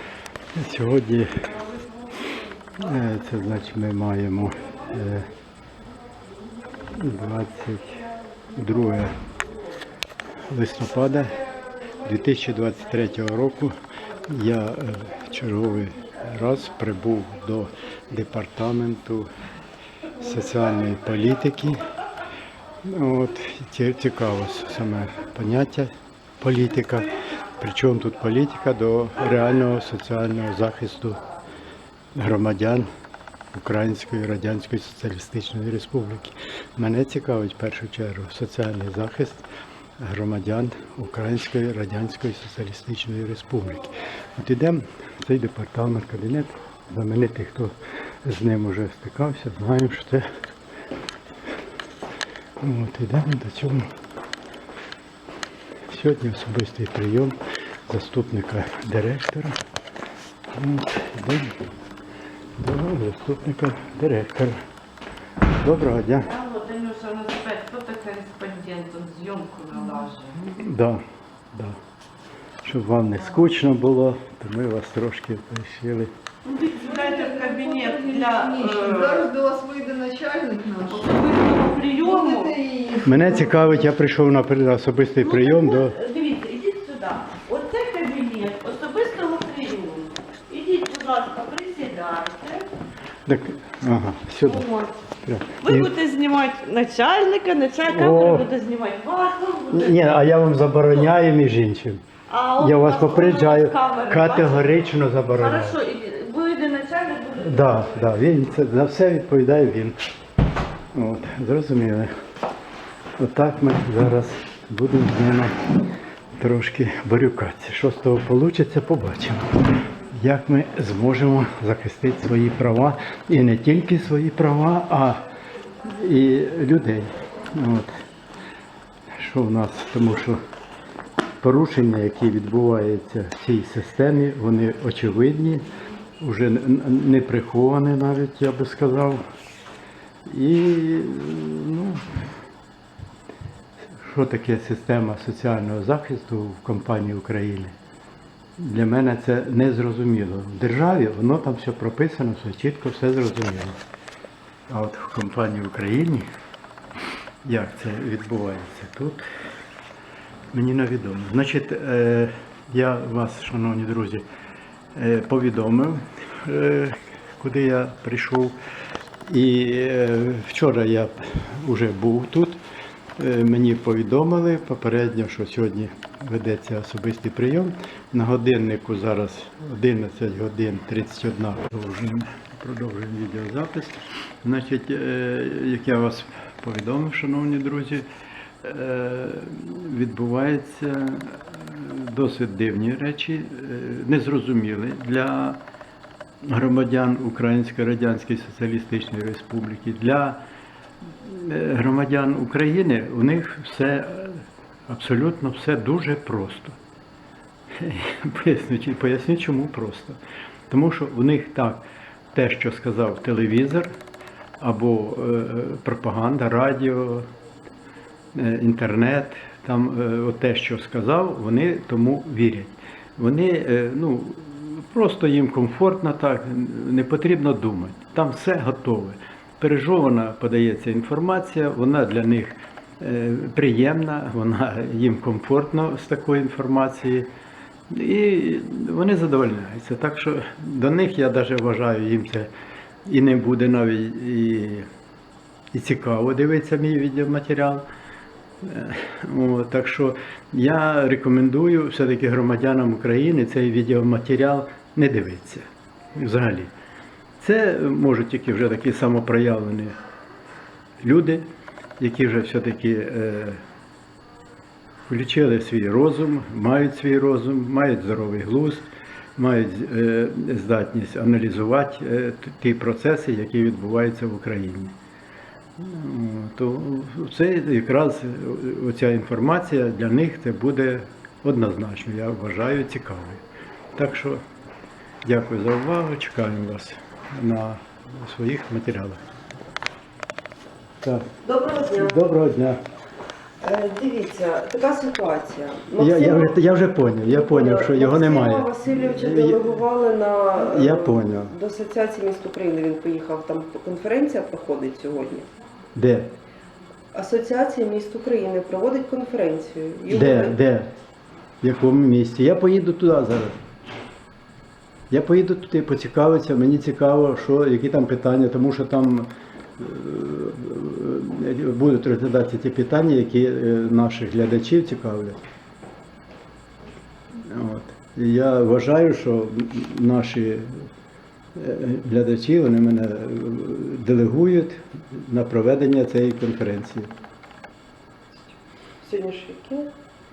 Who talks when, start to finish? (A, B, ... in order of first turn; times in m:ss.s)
0:00.6-0:01.3 A
0:02.8-0:05.2 A
0:06.9-0:08.0 A
0:08.6-0:09.1 A
0:10.5-0:11.3 A
0:12.0-0:13.7 A
0:14.3-0:19.3 A
0:20.2-0:21.8 A
0:22.8-0:31.2 A
0:32.1-0:32.9 A
0:33.5-0:39.4 A
0:40.0-0:50.3 A
0:52.6-0:53.9 A
0:55.9-0:59.6 A
1:00.5-1:01.6 A
1:02.6-1:04.6 A
1:05.6-1:06.3 A
1:06.2-1:10.4 B
1:10.4-1:11.8 A
1:12.6-1:16.1 A
1:16.4-1:19.3 B
1:16.8-1:21.2 C
1:20.9-1:22.6 B
1:22.0-1:23.6 C
1:23.0-1:26.0 A
1:25.2-1:32.7 B
1:33.2-1:34.7 A
1:34.4-1:34.9 B
1:35.2-1:35.9 A
1:35.6-1:40.1 B
1:37.9-1:38.5 A
1:39.7-1:42.0 A
1:42.3-1:44.6 B
1:42.6-1:45.8 A
1:45.4-1:48.2 B
1:47.4-1:50.0 A
1:50.9-1:52.1 A
1:53.2-1:55.5 A
1:56.4-1:59.5 A
2:00.1-2:05.2 A
2:05.9-2:07.9 A
2:09.1-2:10.4 A
2:11.4-2:15.6 A
2:16.2-2:19.2 A
2:20.3-2:22.0 A
2:24.0-2:27.7 A
2:28.6-2:33.8 A
2:34.7-2:36.2 A
2:37.4-2:39.2 A
2:40.5-2:44.2 A
2:44.9-2:48.6 A
2:49.3-2:52.6 A
2:53.2-3:08.0 A
3:08.6-3:15.6 A
3:16.4-3:20.4 A
3:21.2-3:26.8 A
3:27.8-3:30.2 A
3:30.7-3:33.9 A
3:34.6-3:37.3 A
3:38.3-3:57.3 A
3:57.9-4:02.5 A
4:03.0-4:04.9 A
4:05.7-4:07.8 A
4:08.6-4:16.7 A
4:17.4-4:20.0 A
4:21.0-4:21.5 A
4:22.0-4:23.6 A
4:25.1-4:35.0 A
4:35.8-4:43.4 A
4:43.9-4:44.4 A
4:45.2-4:49.2 A
4:51.0-4:51.3 A
4:51.4-4:52.2 D
4:52.0-4:52.8 A
4:53.6-4:56.6 D
4:56.0-4:59.6 A
4:57.2-5:05.4 D
5:00.6-5:01.5 A
5:05.9-5:06.3 A
5:07.1-5:10.6 D
5:10.1-5:10.9 A
5:11.6-5:13.6 A
5:15.1-5:25.4 A
5:27.4-5:30.7 A
5:31.5-5:37.1 A
5:38.3-5:39.9 D